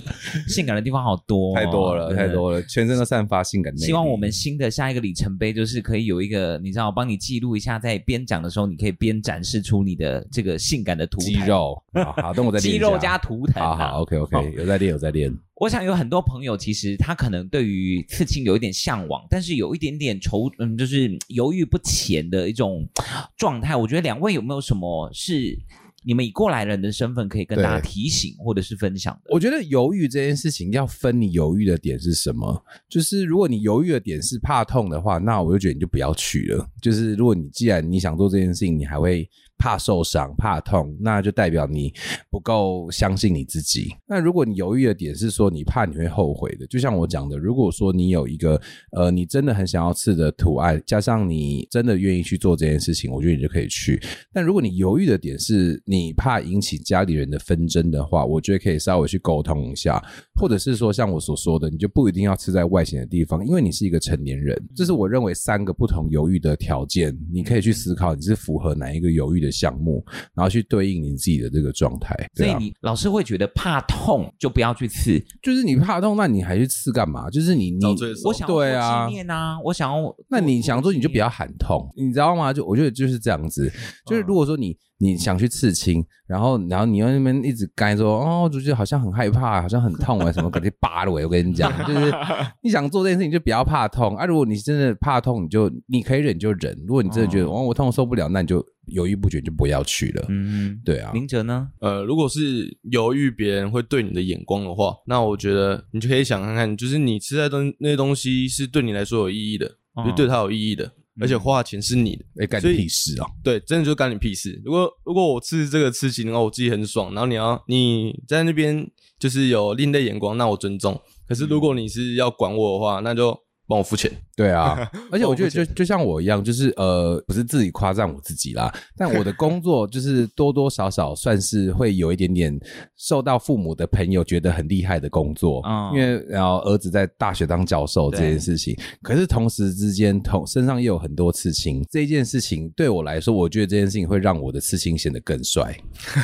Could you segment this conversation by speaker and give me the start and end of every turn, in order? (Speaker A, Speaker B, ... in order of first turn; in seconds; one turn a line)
Speaker A: 0.3-2.4
Speaker B: 1.5-4.3
Speaker A: 3.8-14.5
Speaker B: 11.2-15.4
Speaker A: 15.6-29.4
Speaker B: 27.5-27.9
Speaker B: 29.3-72.6
Speaker A: 67.4-67.8
Speaker A: 72.3-75.3
Speaker B: 75.4-79.2
Speaker C: 77.8-78.4
Speaker A: 78.2-81.2
Speaker B: 80.3-100.3
Speaker A: 97.0-97.5
Speaker A: 100.3-101.7
Speaker B: 100.8-101.2
Speaker C: 101.8-112.9
Speaker A: 110.0-110.3
Speaker A: 111.2-111.5
Speaker B: 112.3-113.3
Speaker C: 113.4-125.7
Speaker B: 124.4-145.8
Speaker A: 135.6-136.2
Speaker A: 138.1-138.5